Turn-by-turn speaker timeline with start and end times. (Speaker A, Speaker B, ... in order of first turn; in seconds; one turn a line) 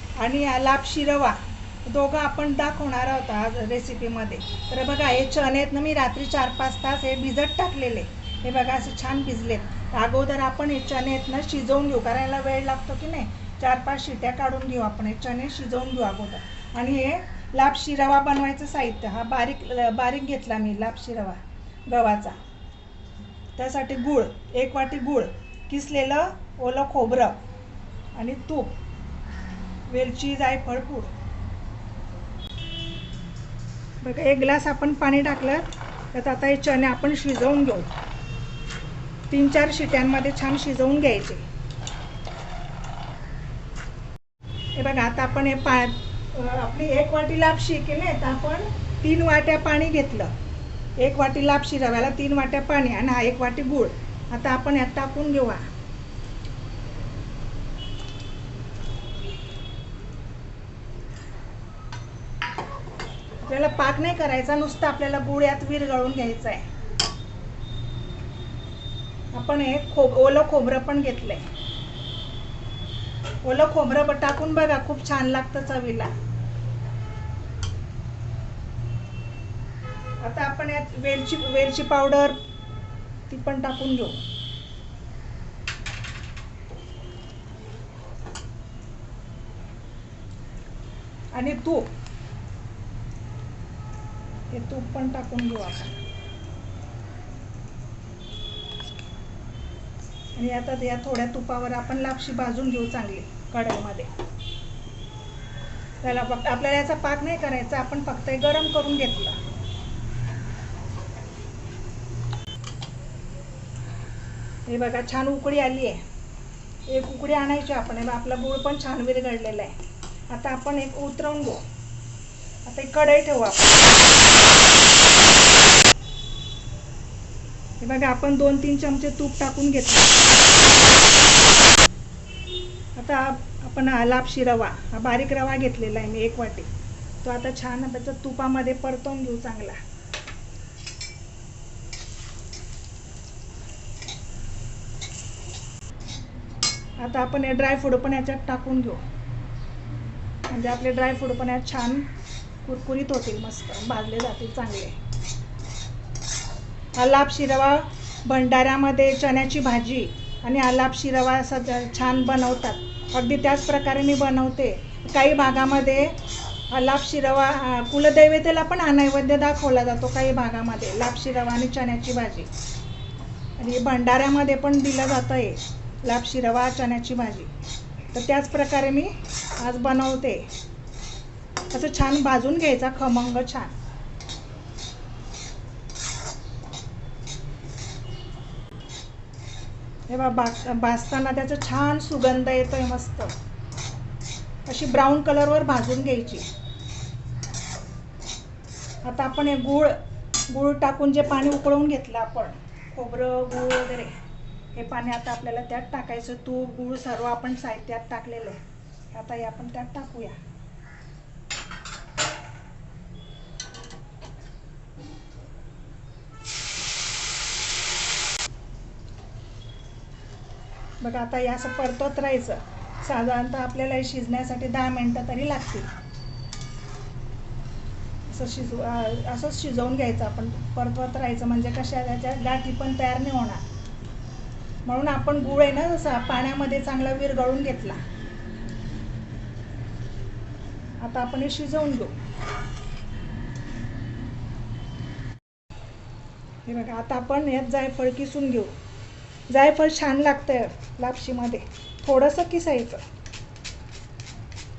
Speaker A: 0.2-22.4
Speaker A: 23.6-27.4
Speaker A: 28.1-28.8
Speaker A: 29.9-31.1
Speaker A: 34.0-37.9
Speaker A: 39.3-41.4
Speaker A: 44.7-50.3
Speaker A: 51.0-55.6
Speaker A: 63.4-66.6
Speaker A: 69.3-71.4
Speaker A: 73.4-76.1
Speaker A: 80.2-82.4
Speaker A: 83.3-84.2
Speaker A: 91.3-91.9
Speaker A: 94.5-96.0
Speaker A: 100.3-104.1
Speaker A: 106.0-109.4
Speaker A: 114.7-116.0
Speaker A: 116.9-119.8
Speaker A: 120.3-121.6
Speaker A: 122.6-124.0
Speaker A: 127.8-130.2
Speaker A: 132.9-136.7
Speaker A: 137.2-139.8
Speaker A: 147.0-149.0
Speaker A: 150.5-152.1
Speaker A: 152.6-154.9
Speaker A: 157.0-166.2
Speaker A: 166.7-172.5
Speaker A: 173.6-177.5
Speaker A: 178.1-180.5
Speaker A: 181.7-183.7
Speaker A: 190.1-193.3
Speaker A: 194.7-196.4
Speaker A: 199.0-200.0
Speaker A: 200.5-204.1
Speaker A: 204.7-208.6
Speaker A: 209.1-210.4
Speaker A: 221.0-225.9
Speaker A: 228.3-233.6
Speaker A: 234.8-238.0
Speaker A: 241.0-242.1
Speaker A: 246.7-248.7
Speaker A: 249.5-253.0